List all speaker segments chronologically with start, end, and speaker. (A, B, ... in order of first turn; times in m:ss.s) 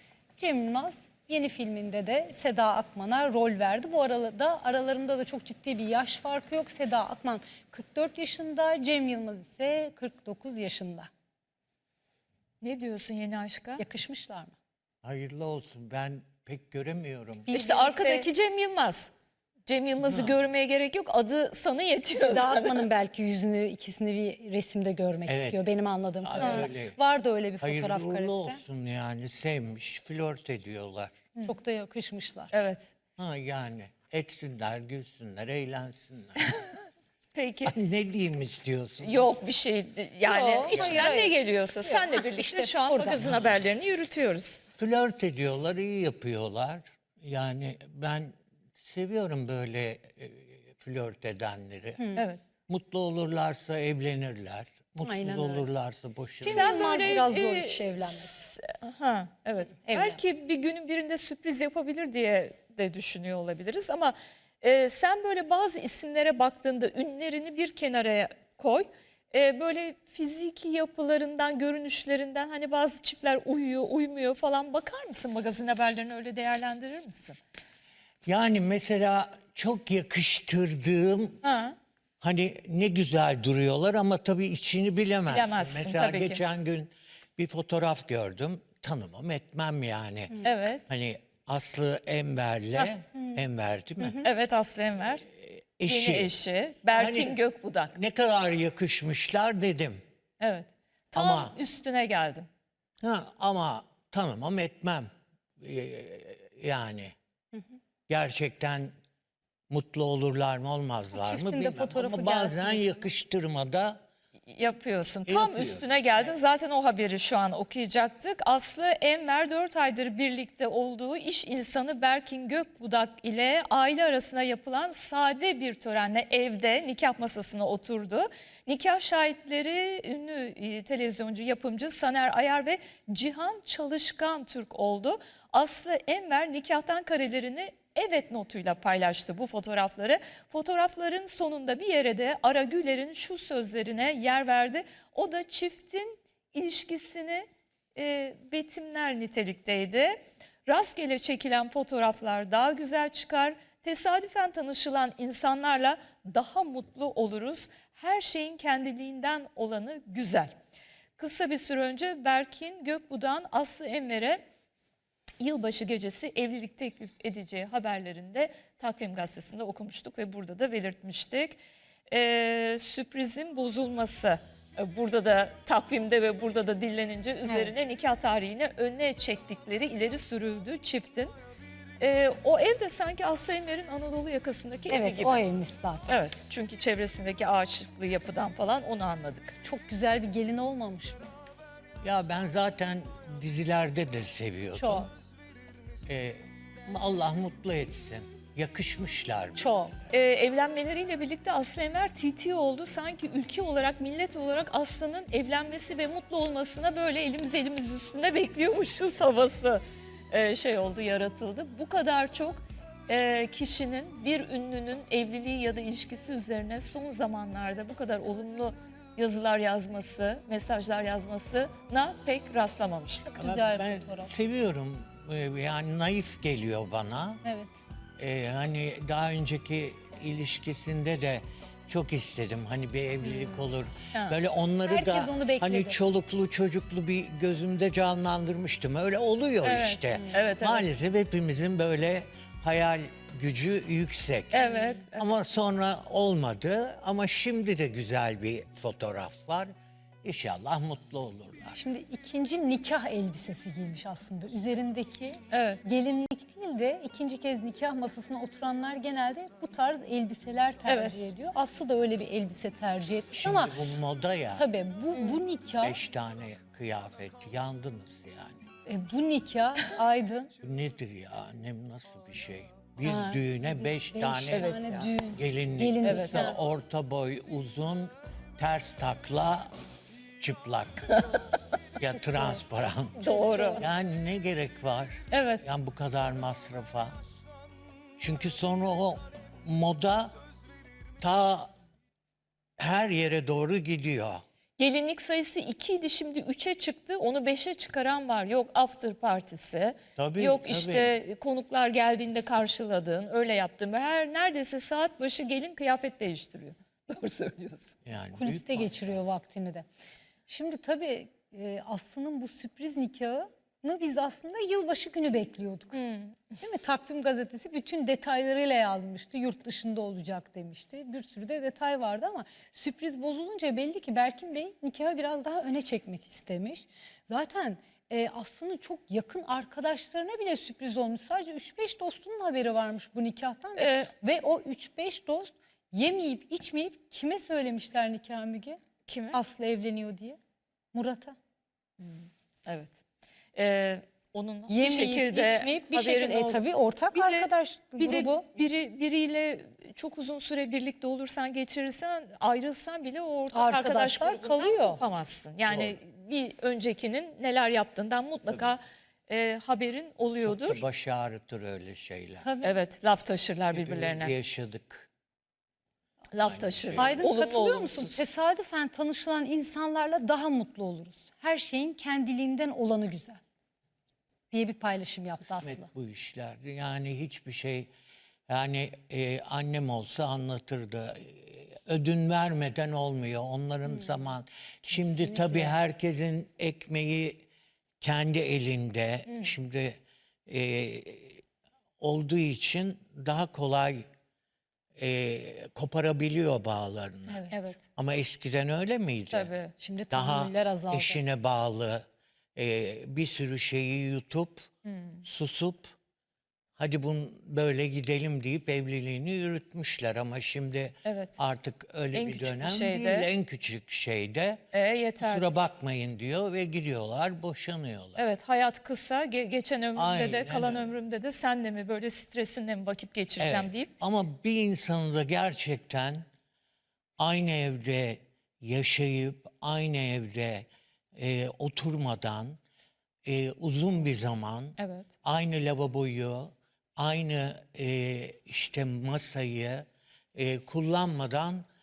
0:00.4-0:11.1 A
0:12.6-0:13.8 B
0:13.8-0:14.5 A
0:15.0-0:17.5 C
0:17.5-0:18.3 A
0:17.5-0:19.1 B
0:19.7-0:22.9 B
0:20.0-0:20.4 C
0:22.2-0:28.6 A
0:25.3-0:25.6 C
0:26.2-0:27.0 C
0:26.4-0:26.7 B
0:27.6-0:31.1 C
0:31.4-0:32.5 A
0:32.5-0:32.9 B
0:33.2-0:36.6 C
0:37.3-0:37.8 B
0:37.7-0:39.3 C
0:39.0-0:44.6 B
0:40.3-0:43.2 A
0:40.7-0:41.1 C
0:44.8-0:52.0 C
0:52.0-0:52.3 A
0:52.7-0:57.1 C
0:55.0-0:55.7 A
0:56.4-0:58.5 A
0:56.4-1:17.4 B
0:59.8-1:00.2 A
1:18.3-1:21.4 C
1:21.4-1:21.8 B
1:22.2-1:34.2 C
1:25.3-1:26.4 B
1:30.4-1:30.8 B
1:34.2-1:35.3 B
1:35.3-1:36.4 C
1:35.9-1:38.0 B
1:36.9-1:40.0 C
1:40.4-1:42.5 B
1:41.1-1:41.6 C
1:43.0-1:47.2 C
1:48.1-1:48.9 C
1:49.7-1:54.0 C
1:51.1-1:53.1 A
1:54.5-2:40.6 B
1:55.3-1:56.3 C
2:41.2-2:44.4 B
2:45.4-3:01.3 B
2:57.5-2:57.7 A
3:02.0-3:05.4 B
3:04.9-3:06.2 A
3:06.1-3:09.5 B
3:09.6-3:11.3 A
3:12.0-3:15.1 C
3:14.7-3:15.1 A
3:16.1-3:19.7 C
3:19.6-3:20.0 A
3:20.1-3:43.4 B
3:43.3-3:44.3 A
3:43.4-3:47.4 C
3:47.4-3:47.7 A
3:48.2-4:09.7 C
3:54.8-3:56.0 A
3:59.6-4:00.9 B
4:04.5-4:05.3 B
4:04.6-4:05.0 A
4:10.2-4:11.8 C
4:11.7-4:23.8 A
4:15.5-4:15.8 B
4:20.9-4:21.2 B
4:23.3-4:24.7 C
4:24.6-4:26.0 A
4:25.1-4:25.4 B
4:25.8-4:28.6 C
4:28.9-4:30.5 A
4:30.6-4:34.8 C
4:33.0-4:36.6 A
4:34.5-4:35.1 B
4:35.3-4:39.7 C
4:36.0-4:36.5 B
4:40.4-4:41.1 C
4:41.1-4:41.4 B
4:42.0-4:43.2 C
4:42.2-4:42.6 A
4:43.2-4:43.9 A
4:43.2-4:43.8 B
4:43.8-4:47.2 C
4:45.3-4:45.6 B
4:48.2-4:50.3 C
4:51.2-4:51.7 C
4:52.8-4:54.4 C
4:54.8-5:07.9 B
5:00.2-5:01.1 C
5:08.0-5:09.2 C
5:08.4-5:09.8 A
5:10.5-5:16.0 A
5:15.9-5:16.6 B
5:16.6-5:38.8 A
5:33.8-5:34.1 B
5:39.1-5:39.4 B
5:39.3-5:40.4 A
5:40.9-5:41.4 A
5:42.0-5:43.0 B
5:43.6-6:00.8 B
5:44.7-5:48.5 A
5:53.5-5:55.0 A
5:55.7-5:56.0 C
6:00.4-6:02.5 C
6:02.4-6:02.8 A
6:02.6-6:04.4 B
6:03.7-6:05.1 C
6:06.3-6:08.2 B
6:06.4-6:07.3 C
6:07.0-6:13.4 A
6:14.5-6:15.9 A
6:15.4-6:17.9 C
6:18.5-6:27.5 C
6:23.9-6:24.2 A
6:24.9-6:25.8 A
6:28.0-6:31.4 C
6:29.3-6:29.5 B
6:32.0-6:34.1 C
6:35.0-6:39.5 C
6:37.3-6:37.6 A
6:37.5-6:37.8 B
6:39.3-6:39.7 B
6:39.8-6:41.2 A
6:40.1-6:42.0 C
6:42.6-6:44.7 C
6:44.8-6:45.2 B
6:45.2-6:46.0 C
6:46.8-6:54.6 C
6:51.0-6:51.4 B
6:52.1-6:53.3 B
6:54.7-6:55.5 B
6:55.2-6:58.2 C
6:58.2-7:03.9 B
7:00.0-7:00.9 C
7:03.4-7:06.3 C
7:07.2-7:12.6 C
7:13.2-7:21.7 C
7:14.8-7:15.1 B